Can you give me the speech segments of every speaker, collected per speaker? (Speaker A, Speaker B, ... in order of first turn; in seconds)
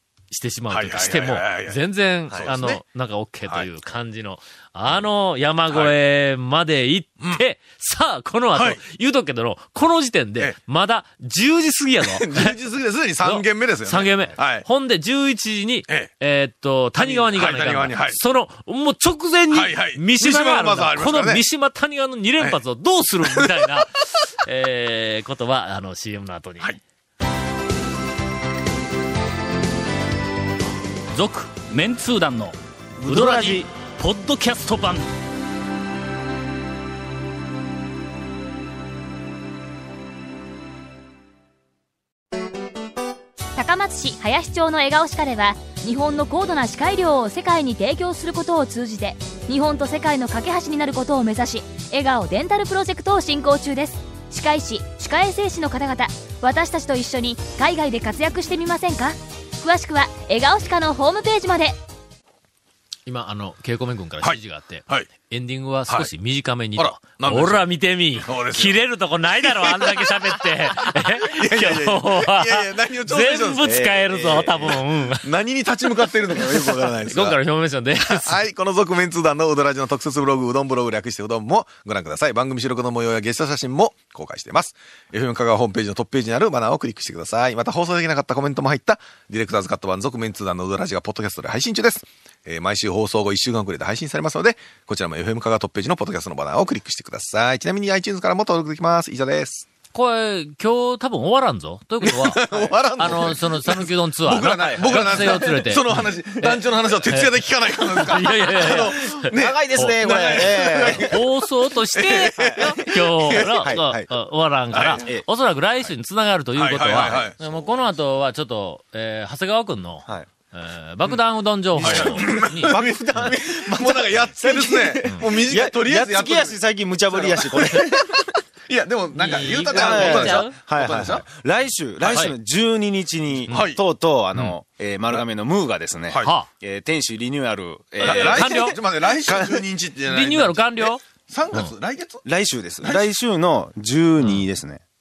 Speaker A: 0.3-12.5, 13.2-26.8, 63.0-75.3, 77.0-78.3, 99.9-102.4, 103.0-123.3, 129.1-130.6, 133.5-133.7, 136.2-136.5, 138.0-138.8, 140.1-141.0
Speaker B: 0.7-2.8, 5.7-5.9, 8.5-8.8, 12.0-14.7, 17.0-18.2, 19.5-21.4, 23.2-23.7, 64.2-65.1, 66.8-67.6, 68.2-68.8, 69.4-70.1, 71.2-73.8, 75.2-77.4, 78.0-99.7, 102.0-111.3, 111.9-113.7, 114.7-115.1, 116.5-117.7, 121.8-131.3, 132.0-132.3, 133.5-133.8, 138.0-142.2, 142.8-143.1
Speaker C: 31.1-35.1
Speaker D: 33.1-33.5, 73.6-74.8, 104.6-105.5, 108.6-111.2, 112.3-114.1, 115.0-115.2, 116.9-117.3, 121.8-128.2, 129.3-139.6, 142.2-144.8
Speaker E: 43.5-61.8